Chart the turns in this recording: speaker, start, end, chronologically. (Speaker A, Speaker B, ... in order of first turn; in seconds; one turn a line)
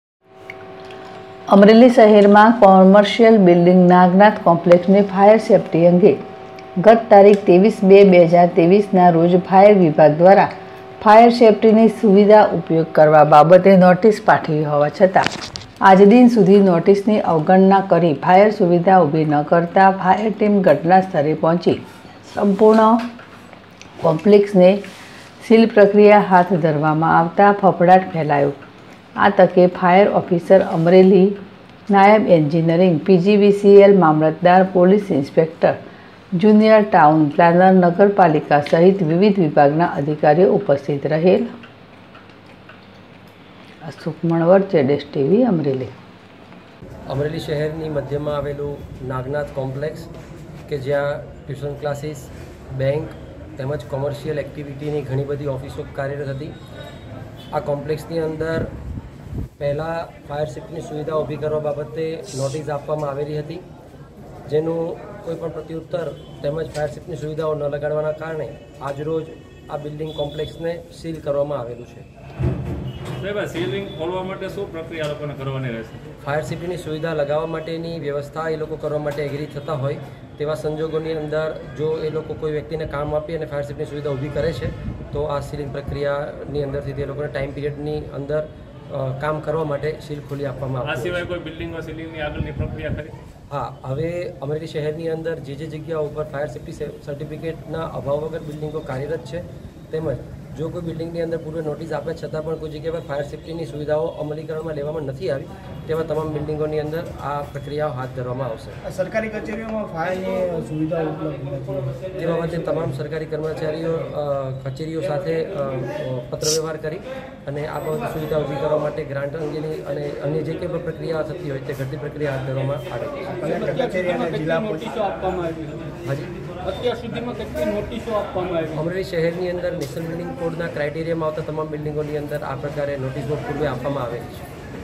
Speaker A: 1.5-6.2
Speaker A: 6.8-15.3
Speaker A: 15.8-23.1
Speaker A: 24.0-24.8
Speaker A: 25.4-28.6
Speaker A: 29.2-31.4
Speaker A: 31.9-35.8
Speaker A: 36.3-41.5
Speaker A: 43.8-45.9
Speaker B: 47.1-50.1
Speaker B: 50.7-56.5
Speaker B: 57.5-58.7
Speaker B: 59.6-63.6
Speaker B: 64.5-72.1
Speaker C: 73.2-76.0
Speaker B: 76.2-91.2
Speaker C: 90.8-93.2
Speaker B: 93.5-108.8
Speaker D: 108.9-112.1
Speaker B: 112.1-123.6
Speaker D: 123.4-124.8
Speaker E: 123.7-125.7
Speaker B: 126.0-126.3
Speaker E: 126.6-128.7
Speaker B: 128.7-134.5